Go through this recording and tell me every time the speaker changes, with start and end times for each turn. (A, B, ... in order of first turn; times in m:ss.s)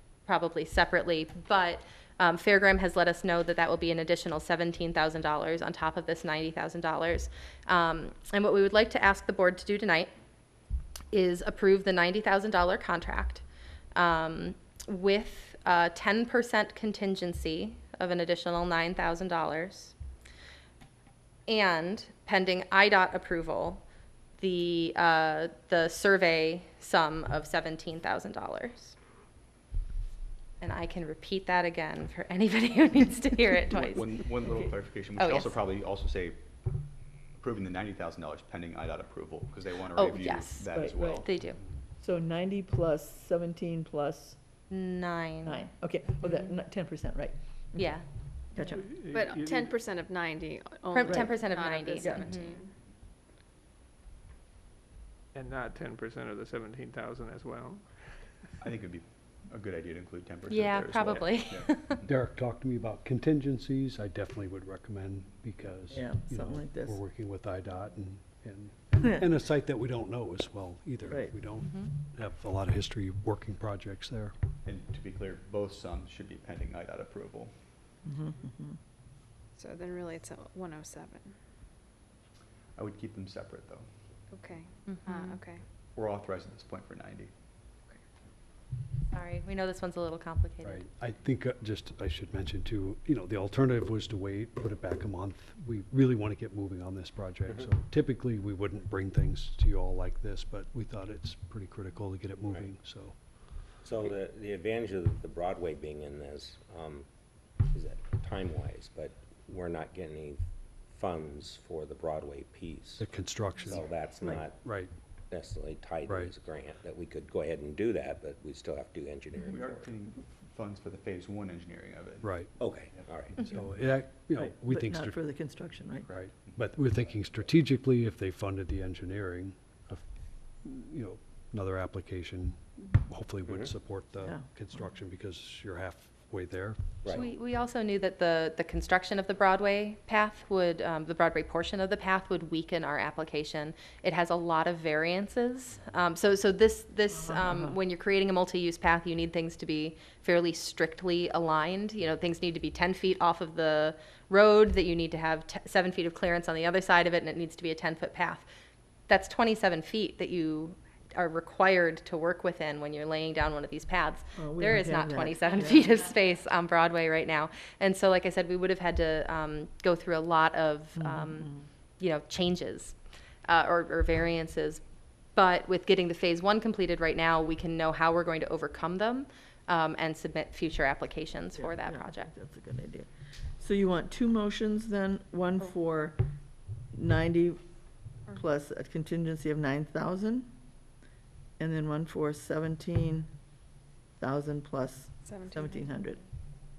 0:00.3-0:10.1 A
0:11.1-0:13.4 A
0:14.0-0:20.0 A
0:21.5-0:23.8 A
0:24.4-0:29.0 A
0:30.6-0:34.1 A
0:33.9-0:36.4 B
0:35.2-0:35.6 A
0:37.4-0:41.4 B
0:40.0-0:41.6 A
0:40.7-0:41.2 C
0:42.0-0:44.4 C
0:44.7-0:45.6 A
0:45.4-0:48.0 C
0:46.2-0:46.5 A
0:47.8-0:48.0 A
0:48.5-0:48.9 C
0:48.7-0:49.7 D
0:49.1-0:52.7 E
0:50.9-0:52.6 A
0:51.0-0:51.4 C
0:52.0-0:52.3 C
0:55.3-0:57.9 D
0:58.6-1:02.2 B
1:00.5-1:02.0 A
1:02.0-1:14.4 F
1:05.9-1:07.0 C
1:11.0-1:11.4 C
1:11.6-1:11.9 A
1:14.6-1:17.5 B
1:18.0-1:18.8 C
1:19.6-1:21.4 E
1:22.8-1:23.9 B
1:24.3-1:25.6 E
1:25.0-1:25.4 A
1:26.0-1:27.3 B
1:29.1-1:30.8 A
1:30.6-1:43.2 F
1:43.8-1:47.1 G
1:47.7-1:53.1 G
1:53.0-1:53.8 F
1:53.6-1:53.9 B
1:53.7-1:54.6 G
1:54.6-1:54.9 F
1:55.3-1:59.6 G
1:56.1-1:56.3 F
1:59.4-2:03.6 B
2:02.2-2:02.5 F
2:02.6-2:03.5 G
2:03.4-2:05.2 F
2:04.4-2:06.1 C
2:06.0-2:10.0 F
2:10.6-2:16.8 F
2:13.5-2:13.7 G
2:14.2-2:14.5 C
2:17.0-2:17.3 G
2:17.1-2:38.5 A
2:27.1-2:27.8 C
2:39.1-2:53.0 A
2:44.4-2:45.9 C
2:51.0-2:51.7 C
2:53.5-2:54.8 A
2:55.4-3:02.3 A
3:01.6-3:03.1 C
3:03.6-3:06.2 C
3:06.9-3:07.6 C
3:08.3-3:10.5 C
3:11.6-3:13.3 C
3:14.2-3:16.2 C
3:15.2-3:15.9 E